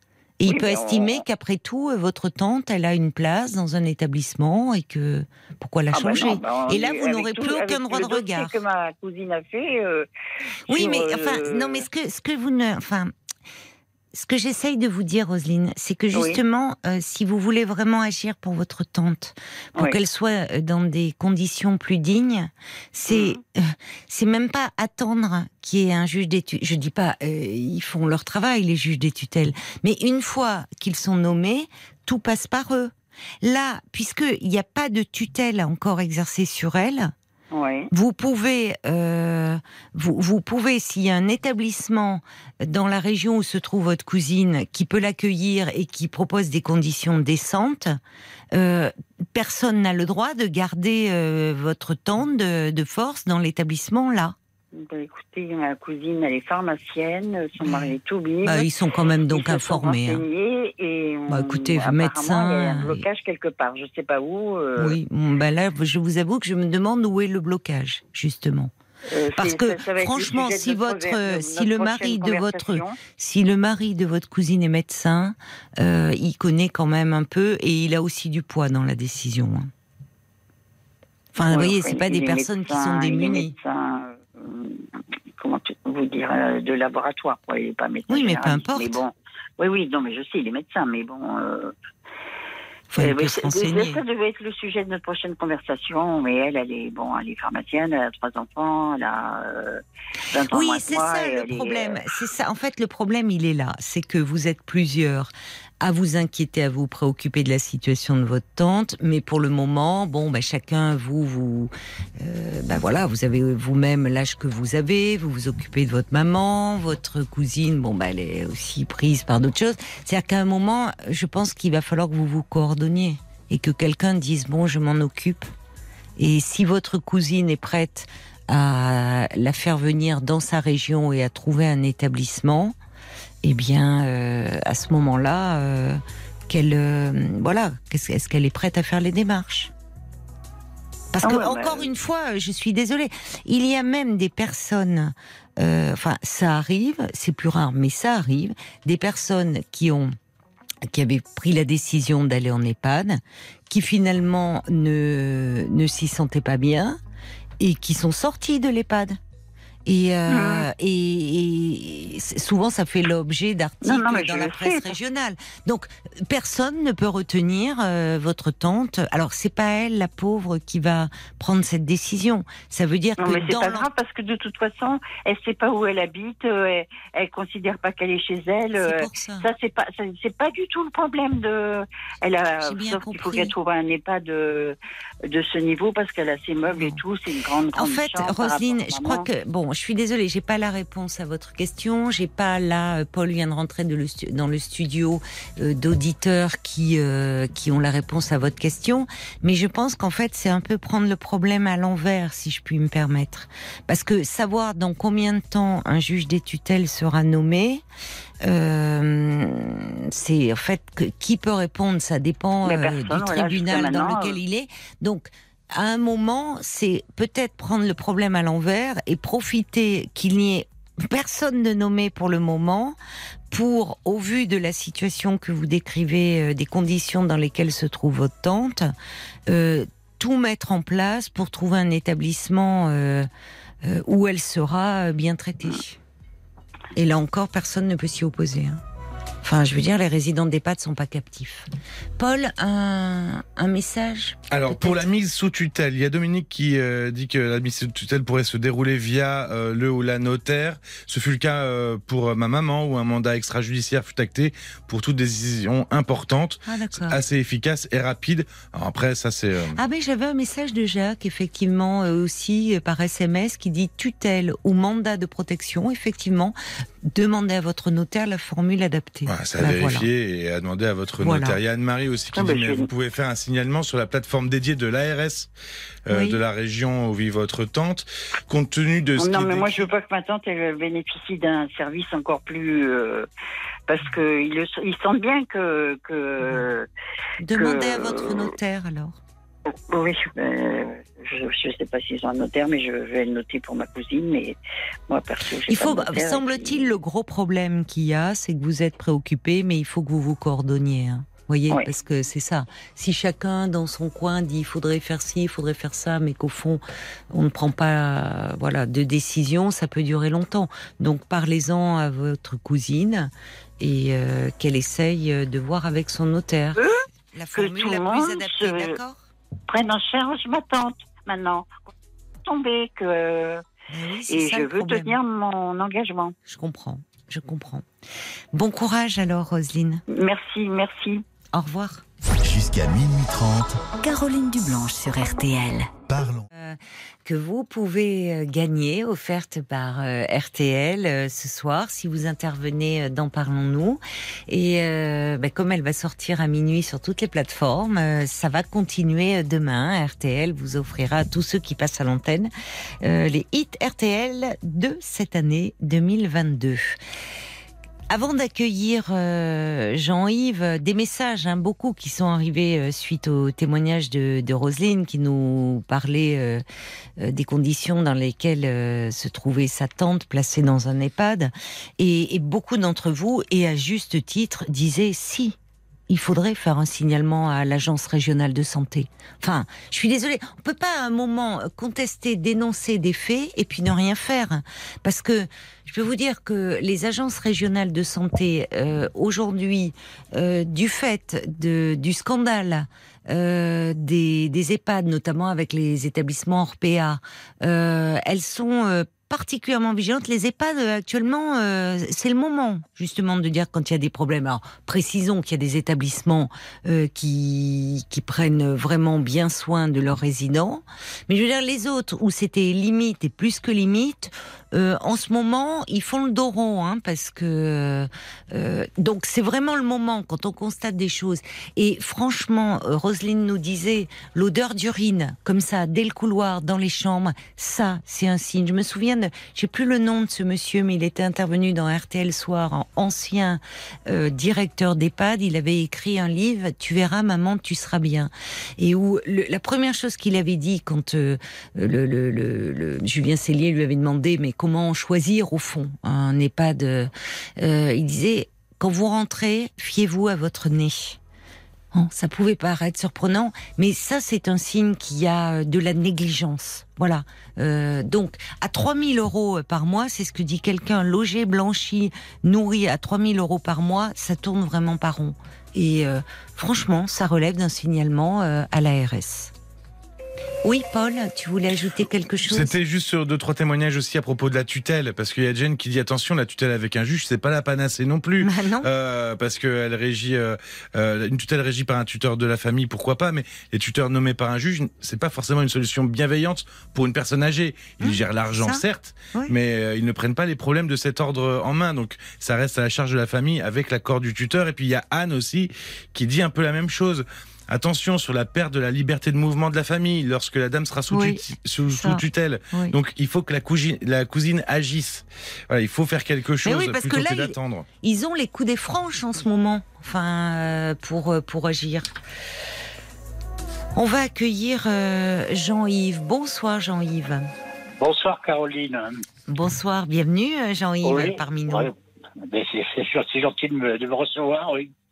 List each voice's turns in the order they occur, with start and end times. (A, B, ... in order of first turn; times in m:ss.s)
0:00.4-0:08.6 A
0:00.4-0:01.2 B
0:05.9-0:10.1 B
0:10.7-0:13.1 A
0:10.7-0:11.8 B
0:14.1-0:37.1 A
0:16.1-0:16.4 B
0:23.1-0:23.4 B
0:37.5-0:37.9 B
0:37.9-0:48.0 A
0:48.5-0:54.3 A
0:54.7-0:58.7 B
0:57.6-0:57.9 A
0:58.4-1:00.2 A
0:59.3-1:05.0 B
1:01.3-1:03.0 A
1:04.8-1:08.7 A
1:09.1-1:13.0 B
1:09.4-1:19.7 A
1:21.3-1:23.5 A
1:21.5-1:31.7 B
1:28.1-1:29.0 A
1:32.9-1:34.0 A
1:33.0-1:42.0 B
1:40.5-2:05.5 A
2:06.2-2:12.8 A
2:13.4-2:19.7 A
2:21.1-2:30.1 A
2:21.2-2:21.9 B
2:30.8-2:37.0 A
2:37.6-2:39.2 A
2:39.8-2:53.9 A
2:40.3-2:40.7 B
2:43.8-2:45.0 B
2:53.2-3:04.8 B
2:58.8-2:59.5 A
3:02.6-3:03.5 A
3:05.3-3:09.3 B
3:06.7-3:07.0 A
3:07.7-3:27.8 A
3:28.4-3:43.0 A
3:32.6-3:34.4 B
3:43.5-3:48.9 A
3:49.5-3:53.3 A
3:53.8-3:56.0 A
3:56.9-3:58.8 A
3:59.4-4:04.4 A
4:04.5-4:19.8 C
4:16.6-4:17.2 A
4:19.8-4:30.1 A
4:29.2-4:35.5 C
4:31.2-4:31.6 A
4:32.3-4:32.9 B
4:36.0-4:39.9 C
4:36.1-4:36.4 A
4:39.2-4:43.3 B
4:43.9-4:46.9 B
4:47.4-4:49.2 A
4:47.5-4:48.5 B
4:49.6-4:54.6 B
4:55.1-4:56.9 B
4:55.7-5:19.2 A
5:16.8-5:19.0 B
5:19.7-5:21.9 B
5:22.4-5:23.6 B
5:23.9-5:25.2 A
5:24.3-5:26.4 B
5:26.4-5:27.9 A
5:28.5-5:30.0 A
5:30.1-5:31.2 B
5:31.5-5:32.0 A
5:32.4-5:33.9 D
5:34.0-5:35.9 A
5:36.1-5:36.5 D
5:36.5-5:52.5 A
5:53.0-5:57.0 A
5:58.1-6:06.6 A
6:07.2-6:15.6 A
6:16.1-7:31.2 A
7:31.9-7:49.5 A
7:50.6-7:52.8 A
7:52.5-8:27.9 C
7:58.4-7:58.9 A
8:08.0-8:09.5 A
8:21.1-8:23.0 A
8:26.6-8:32.1 A
8:33.9-8:37.5 A
8:38.0-8:39.2 E
8:39.5-8:41.9 A
8:41.0-8:44.9 E